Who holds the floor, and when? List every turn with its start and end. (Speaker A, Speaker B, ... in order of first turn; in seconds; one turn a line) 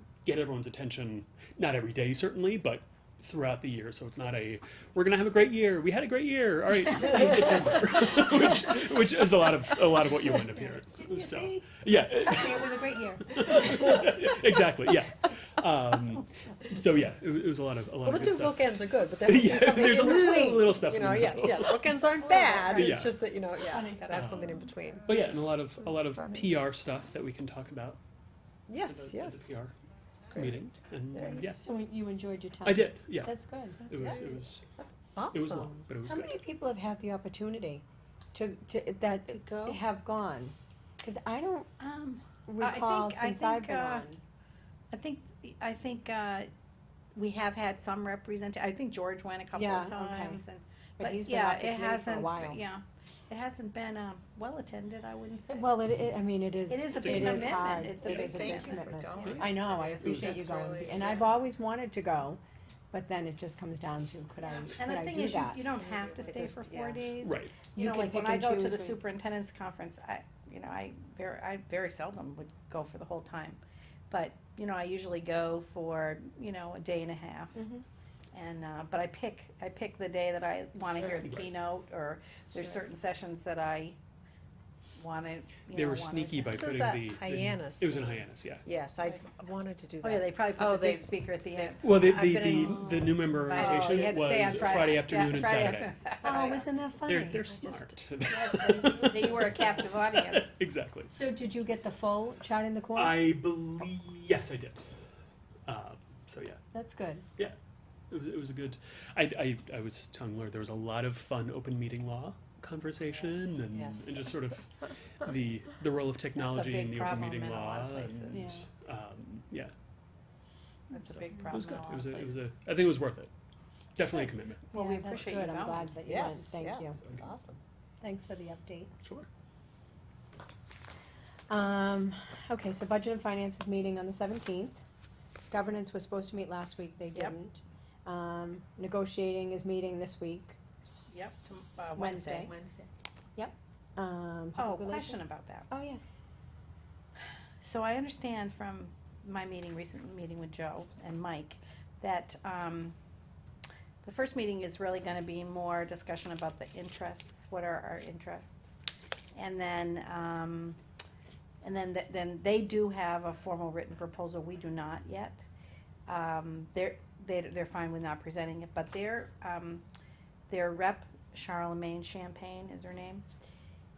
Speaker A: 0.2-22.0
Speaker B: 10.5-13.9
Speaker C: 18.0-25.1
Speaker B: 22.2-22.9
Speaker A: 22.7-23.2
Speaker B: 23.7-24.7
Speaker A: 24.1-28.0
Speaker C: 26.0-26.5
Speaker C: 28.7-29.6
Speaker A: 28.8-29.7
Speaker A: 30.3-31.7
Speaker C: 31.1-31.5
Speaker B: 31.3-33.8
Speaker A: 32.6-34.6
Speaker C: 33.9-35.8
Speaker A: 35.3-36.4
Speaker B: 36.0-41.7
Speaker C: 39.3-39.8
Speaker D: 41.8-44.1
Speaker B: 42.5-44.2
Speaker D: 44.9-46.5
Speaker D: 47.1-55.7
Speaker B: 49.6-50.4
Speaker B: 51.0-52.6
Speaker B: 55.5-62.4
Speaker D: 56.7-59.4
Speaker A: 57.0-57.6
Speaker C: 58.2-61.2
Speaker A: 60.0-60.4
Speaker B: 62.9-65.7
Speaker D: 64.4-77.6
Speaker C: 65.8-67.0
Speaker A: 67.2-67.5
Speaker B: 67.8-69.0
Speaker B: 77.6-77.8
Speaker D: 78.3-84.0
Speaker A: 81.0-81.5
Speaker D: 85.0-86.6
Speaker A: 85.7-88.7
Speaker C: 86.5-93.0
Speaker D: 90.0-92.0
Speaker A: 91.8-95.9
Speaker D: 93.5-96.7
Speaker B: 96.2-97.8
Speaker A: 97.0-101.2
Speaker D: 98.3-100.5
Speaker B: 101.1-103.3
Speaker A: 103.0-104.8
Speaker A: 105.7-106.6
Speaker B: 106.7-107.2
Speaker A: 108.1-114.7
Speaker C: 113.7-114.2
Speaker A: 115.2-119.7
Speaker D: 116.4-118.5
Speaker B: 118.3-118.7
Speaker D: 120.9-122.4
Speaker A: 121.0-123.3
Speaker A: 124.0-124.7
Speaker B: 124.7-127.0
Speaker D: 124.7-125.9
Speaker C: 126.0-127.6
Speaker B: 128.0-128.9
Speaker A: 129.0-129.3
Speaker B: 131.5-134.8
Speaker B: 135.5-142.5
Speaker D: 141.1-142.6
Speaker B: 143.4-146.0
Speaker D: 144.6-145.7
Speaker D: 147.6-153.0
Speaker D: 154.0-158.7
Speaker D: 159.3-160.8
Speaker D: 161.6-165.5
Speaker D: 166.1-169.8
Speaker D: 170.5-173.2